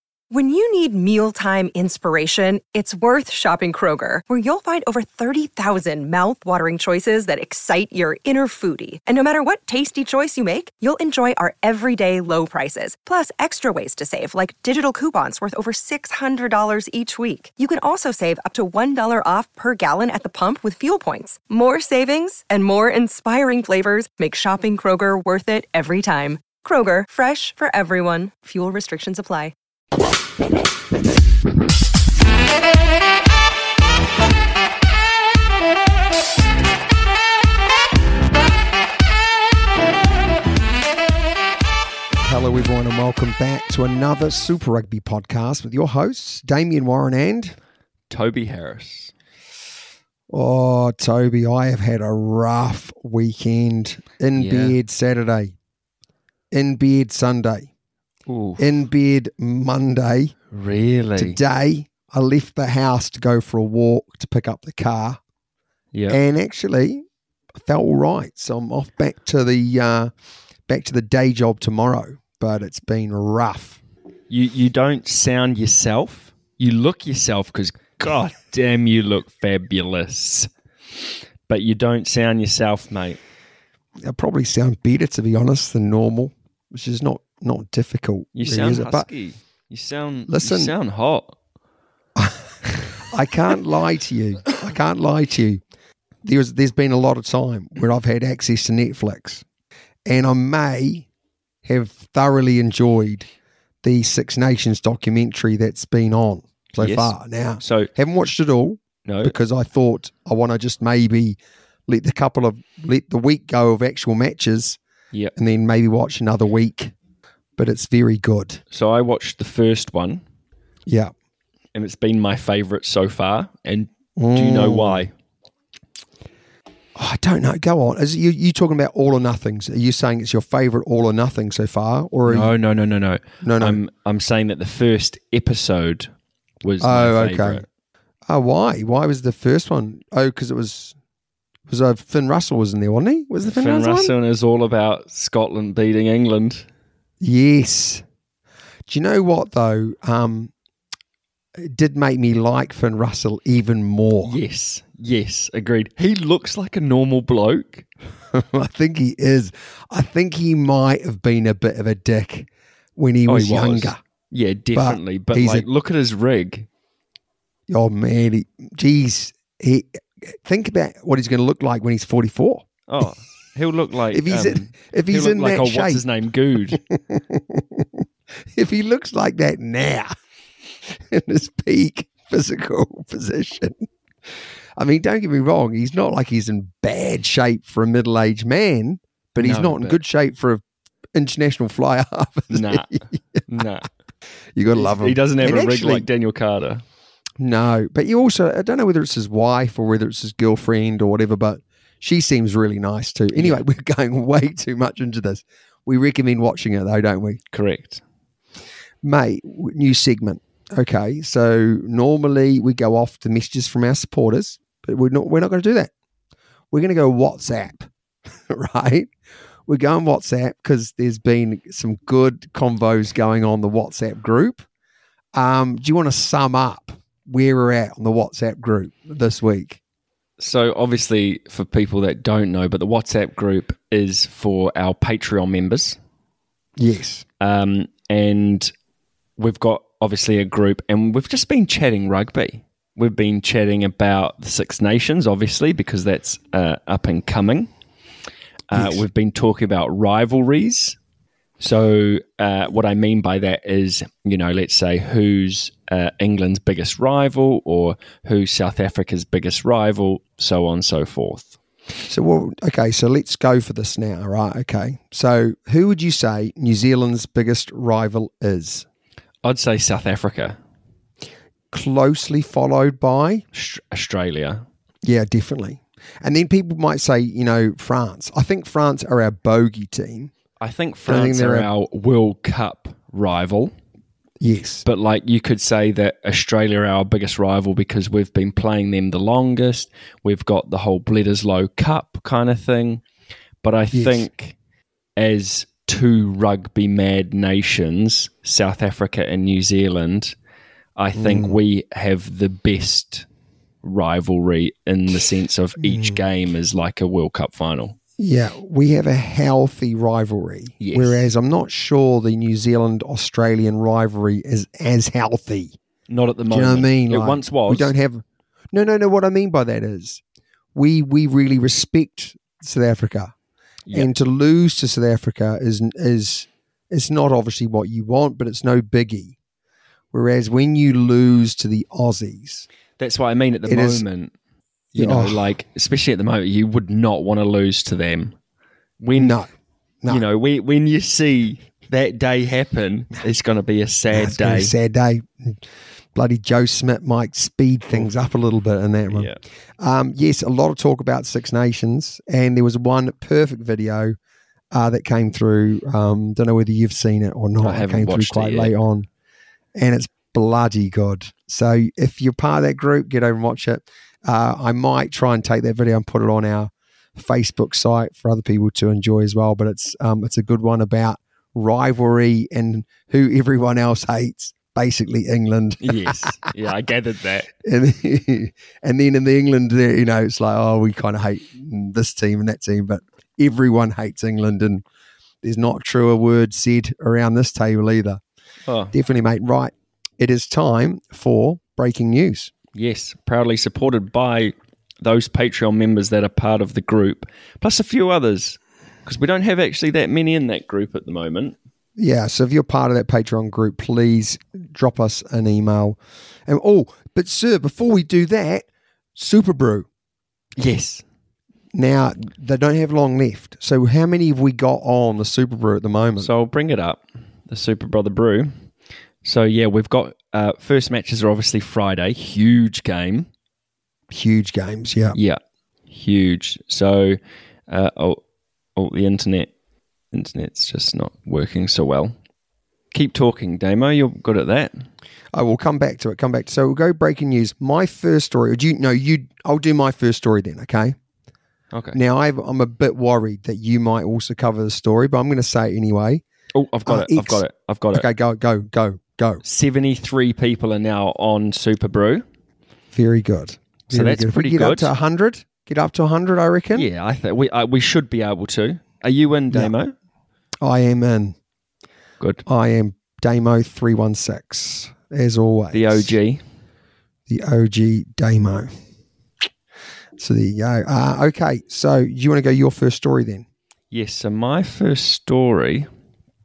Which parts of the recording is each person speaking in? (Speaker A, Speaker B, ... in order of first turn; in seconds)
Speaker A: 0.3-29.6
Speaker B: 42.2-47.6, 50.3-55.6, 56.5-57.7, 58.6-60.4, 61.2-65.2, 66.1-67.0, 67.5-70.1, 70.7-73.8, 84.0-89.1, 90.3-90.7, 92.2-95.6, 96.2-99.5, 100.1-101.1, 101.6-103.3, 103.8-114.8, 115.4-116.9, 117.6-118.6, 120.9-121.1, 124.2-125.1, 127.0-132.5, 133.4-133.8, 136.8-137.6, 138.3-141.0, 141.7-144.1, 147.2-148.0, 148.9-150.5, 151.6-154.4, 158.3-164.0, 164.7-165.7, 167.7-172.7, 174.1-176.0, 176.7-180.1, 180.8-190.6, 191.2-193.6, 194.6-196.1, 197.4-207.4, 209.0-215.9, 216.7-219.1, 219.7-224.6, 225.3-229.8, 236.8-237.2, 248.7-249.0, 262.1-268.9, 271.7-273.4, 275.0-280.3, 281.1-281.7, 284.4-284.8, 293.9-294.3, 301.1-301.6, 305.8-306.2, 308.2-315.8, 316.5-320.2, 320.8-323.3, 323.9-329.4, 330.1-332.7, 333.7-334.1, 334.9-335.5, 339.2-339.5, 344.1-345.6, 346.1-354.2, 354.7-359.1, 359.8-376.4, 377.6-384.8, 385.4-388.2, 388.9-392.5, 402.0-409.9, 411.7-416.3, 424.1-425.2, 435.3-441.0, 441.9-446.2, 446.9-449.4, 452.9-456.9, 460.6-461.4, 462.5-466.1, 467.3-468.7, 470.2-473.5
Speaker C: 48.1-49.1, 54.4-54.8, 58.3-58.6, 60.5-61.4, 65.9-66.2, 74.3-80.5, 81.5-83.2, 88.4-91.3, 106.8-107.9, 109.1-109.4, 118.7-120.2, 121.7-125.1, 132.2-136.1, 136.6-137.7, 143.4-146.7, 154.2-157.9, 163.3-166.7, 172.9-176.8, 189.3-190.0, 192.5-193.9, 194.7-196.8, 203.3-203.6, 207.5-208.0, 230.4-236.0, 237.4-238.7, 239.4-247.7, 248.7-251.0, 251.6-261.6, 269.4-270.6, 273.5-274.6, 280.6-283.7, 284.9-293.0, 293.6-294.6, 295.2-300.3, 301.0-303.3, 303.8-308.0, 310.8-311.3, 316.1-317.9, 333.0-334.3, 334.9-338.4, 339.0-339.4, 340.1-344.7, 349.1-349.4, 357.6-358.7, 375.8-377.5, 388.7-388.9, 392.7-401.6, 410.6-411.0, 416.2-418.6, 419.2-423.3, 425.1-425.4, 425.9-428.2, 428.8-429.5, 430.1-432.1, 432.9-434.9, 441.7-442.0, 446.5-448.1, 449.4-452.2, 453.9-454.9, 456.7-459.9, 465.7-466.4, 473.9-475.9